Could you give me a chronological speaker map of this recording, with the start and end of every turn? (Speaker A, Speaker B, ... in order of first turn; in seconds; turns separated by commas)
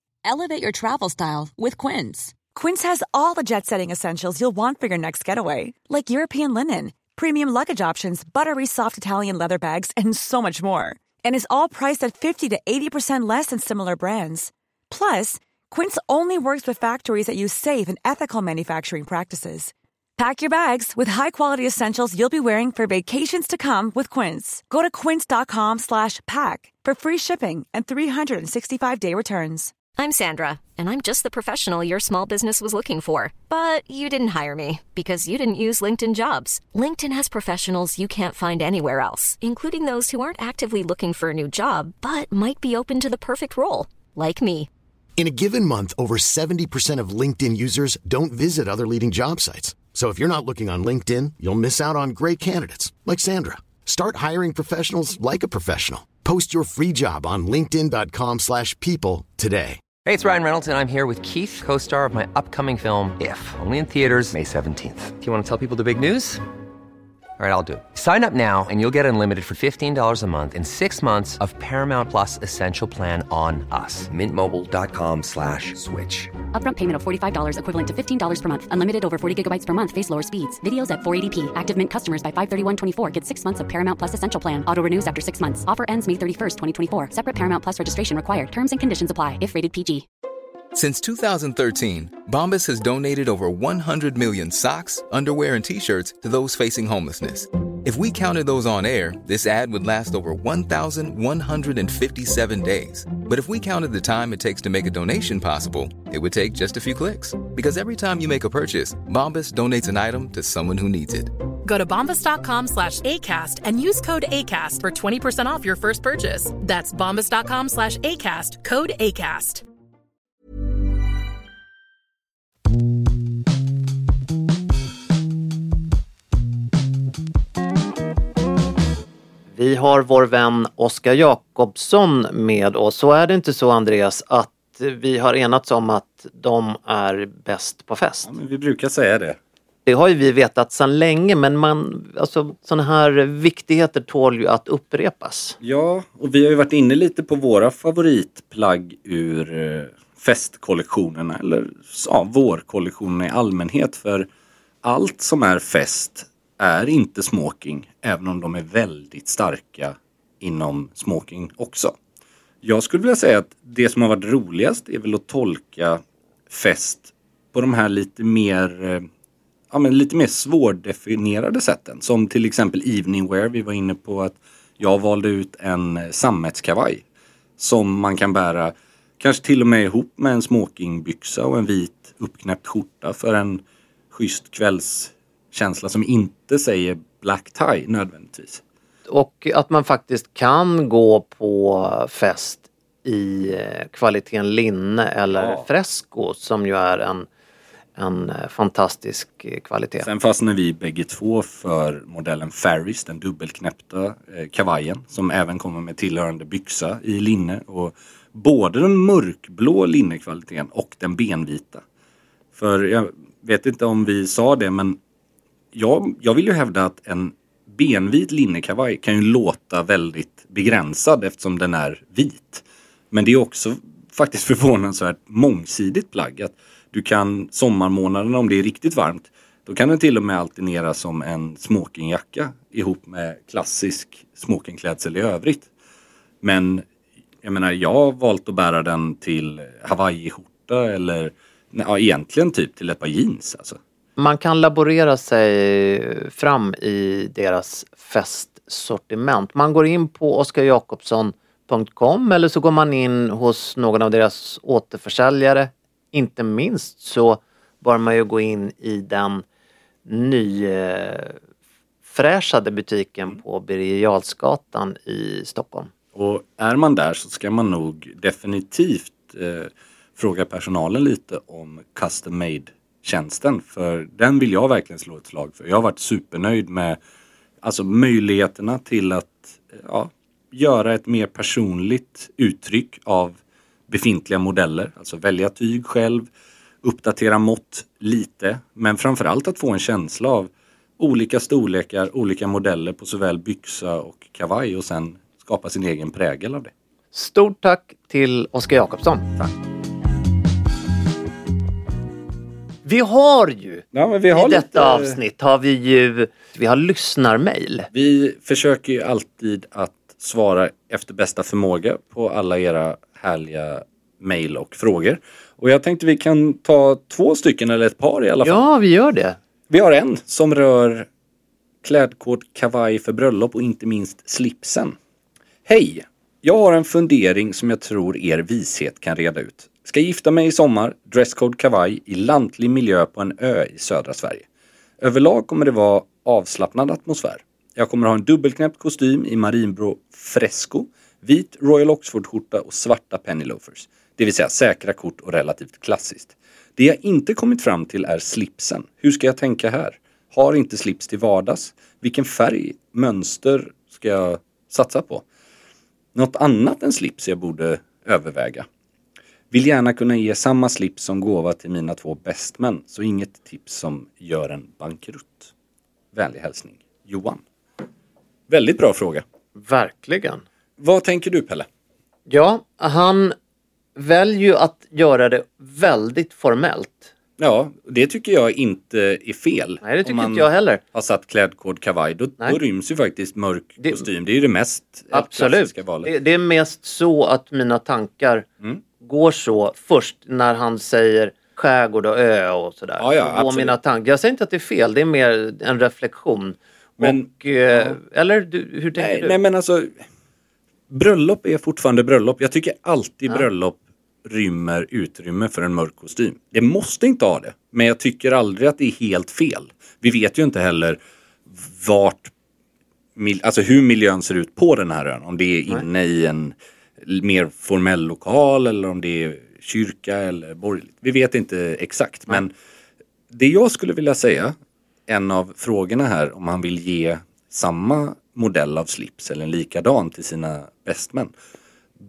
Speaker A: 0.2-2.4, Speaker B: 2.4-29.7, Speaker C: 29.9-44.7, Speaker D: 45.2-59.8, Speaker E: 60.0-66.4, Speaker E: 67.4-76.4, Speaker F: 76.5-90.0, Speaker G: 90.7-111.3, Speaker H: 111.6-119.6, Speaker I: 129.5-138.3, Speaker J: 138.2-139.4, Speaker I: 139.8-145.6, Speaker J: 145.6-154.3, Speaker J: 154.8-161.9, Speaker J: 162.6-169.1, Speaker J: 169.7-177.0, Speaker J: 177.6-188.6, Speaker I: 189.1-197.3, Speaker J: 195.3-195.7, Speaker I: 198.0-200.1, Speaker J: 200.0-211.8, Speaker J: 212.5-215.0, Speaker J: 215.7-235.7, Speaker J: 236.4-236.8, Speaker J: 237.4-243.8, Speaker I: 244.2-259.4, Speaker I: 260.1-261.4, Speaker I: 262.1-265.9, Speaker J: 266.1-277.0, Speaker J: 277.6-283.4, Speaker J: 283.9-286.3, Speaker J: 286.8-296.7, Speaker I: 297.1-299.3, Speaker I: 302.8-307.9, Speaker J: 303.9-305.2, Speaker J: 307.9-318.7, Speaker I: 318.4-319.4, Speaker J: 319.7-321.1, Speaker J: 321.8-325.0, Speaker J: 325.6-334.4, Speaker J: 335.0-355.2, Speaker J: 356.1-358.6, Speaker J: 359.5-365.5, Speaker J: 366.1-367.4, Speaker J: 368.5-369.2, Speaker I: 369.6-370.4, Speaker J: 370.8-371.7, Speaker I: 372.3-373.3, Speaker I: 373.9-377.1, Speaker J: 377.4-386.1, Speaker I: 379.8-380.8, Speaker I: 385.1-388.4, Speaker I: 389.0-399.4, Speaker J: 393.0-393.7, Speaker J: 397.0-398.0, Speaker J: 399.0-399.9, Speaker J: 400.9-411.0, Speaker J: 411.6-412.3, Speaker J: 413.1-422.5, Speaker J: 423.3-424.5, Speaker J: 425.1-431.3